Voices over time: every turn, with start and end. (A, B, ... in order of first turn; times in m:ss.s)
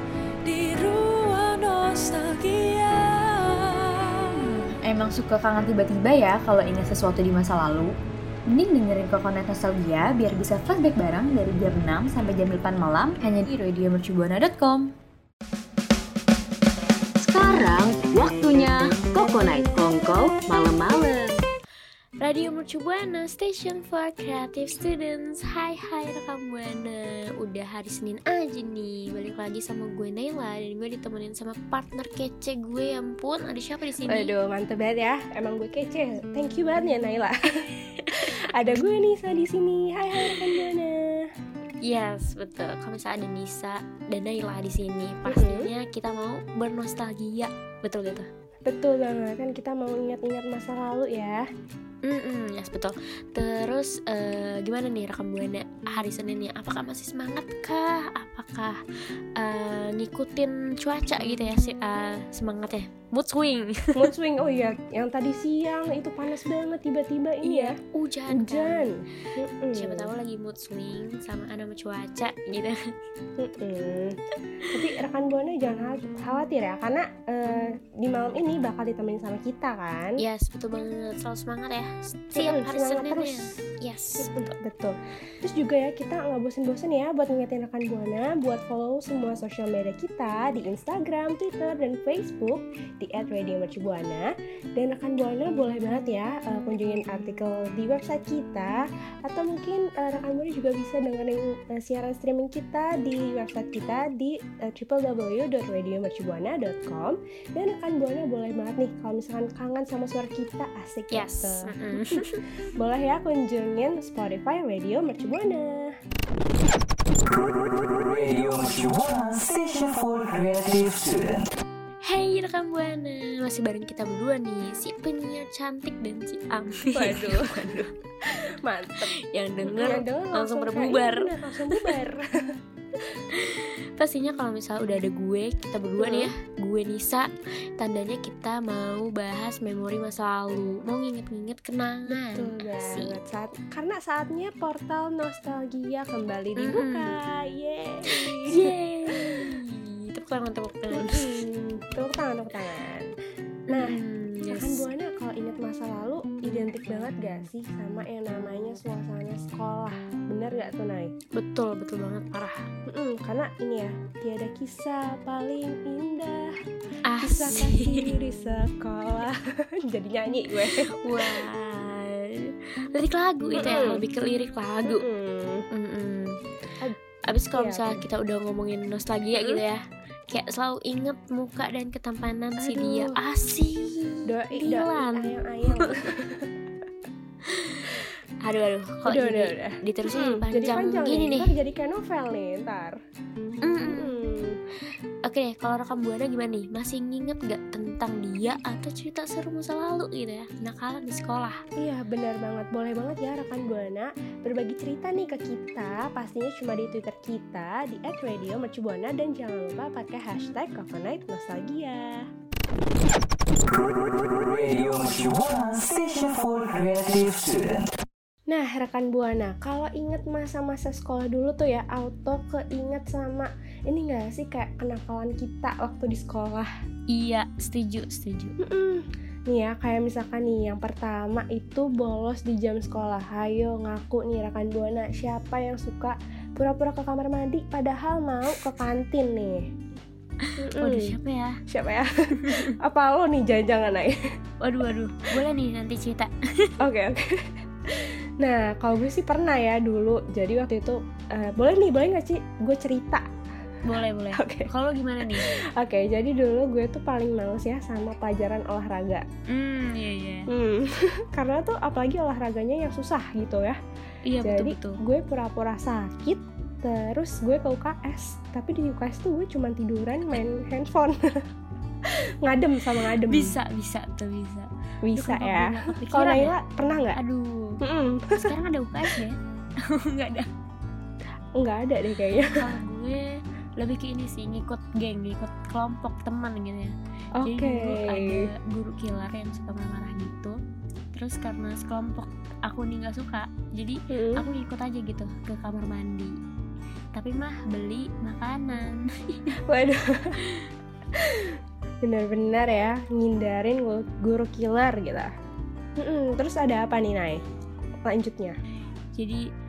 0:00.4-0:04.6 A
0:04.5-0:08.0 B
0:08.5-0:14.9 B
0:17.2-0:21.4 C
0:22.2-0:34.3 D
0:34.0-0:37.3 E
0:38.2-0:41.2 E
0:38.6-0:38.9 D
0:41.8-0:48.3 D
0:45.3-0:45.7 E
0:48.7-0:51.4 E
0:52.0-0:58.8 D
0:59.4-1:04.1 D
1:04.0-1:07.7 E
1:07.4-1:08.9 D
1:08.3-1:10.1 E
1:09.8-1:12.8 D
1:13.4-1:14.1 E
1:14.7-1:20.1 E
1:20.2-1:24.5 D
1:22.3-1:23.5 E
1:24.2-1:52.2 E
1:51.1-1:52.4 D
1:52.8-1:55.9 E
1:58.2-2:01.3 F
2:02.0-2:07.9 D
2:06.9-2:07.8 E
2:08.6-2:09.1 E
2:09.3-2:12.0 D
2:09.7-2:12.2 E
2:13.4-2:23.2 D
2:16.0-2:16.3 E
2:22.1-2:29.5 E
2:26.6-2:27.2 D
2:28.2-2:31.4 D
2:30.9-2:33.1 E
2:33.7-2:34.8 D
2:33.7-2:34.0 E
2:34.5-2:41.1 E
2:38.5-2:38.8 D
2:41.4-2:42.6 D
2:42.9-2:46.4 E
2:47.1-2:48.1 D
2:47.2-2:51.4 E
2:51.0-2:55.0 D
2:53.6-2:54.0 E
2:54.8-2:55.6 E
2:55.7-2:56.4 D
2:57.3-3:06.0 D
2:57.6-2:58.0 E
2:59.3-2:59.6 E
3:02.6-3:03.2 E
3:04.3-3:06.5 E
3:07.5-3:07.9 D
3:08.4-3:11.5 D
3:09.1-3:13.0 E
3:13.6-3:14.1 D
3:13.9-3:14.6 E
3:15.3-3:21.6 D
3:21.8-3:32.2 E
3:34.9-3:37.8 F
3:38.5-3:46.7 E
3:47.1-3:48.5 D
3:48.6-3:59.6 E
4:00.5-4:01.6 D
4:00.6-4:01.1 E
4:01.7-4:04.2 E
4:02.4-4:02.7 D
4:04.6-4:06.7 D
4:06.8-4:07.4 E
4:08.0-4:13.2 E
4:13.8-4:15.4 D
4:14.3-4:14.7 E
4:15.3-4:19.2 E
4:19.5-4:20.5 D
4:20.5-4:23.8 E
4:24.2-4:25.0 D
4:24.4-4:31.4 E
4:32.4-4:33.6 E
4:33.1-4:36.6 D
4:35.0-4:37.2 E
4:37.1-4:37.8 D
4:37.8-4:38.5 E
4:38.4-4:39.4 D
4:40.0-4:40.5 D
4:41.6-4:42.6 E
4:42.5-4:43.2 D
4:43.8-4:50.6 D
4:47.4-4:48.5 E
4:51.1-4:56.3 D
4:54.1-4:54.5 E
4:57.2-4:59.4 D
4:59.7-5:00.4 E
5:02.0-5:05.3 E
5:06.0-5:07.4 E
5:08.1-5:08.6 E
5:09.2-5:09.4 D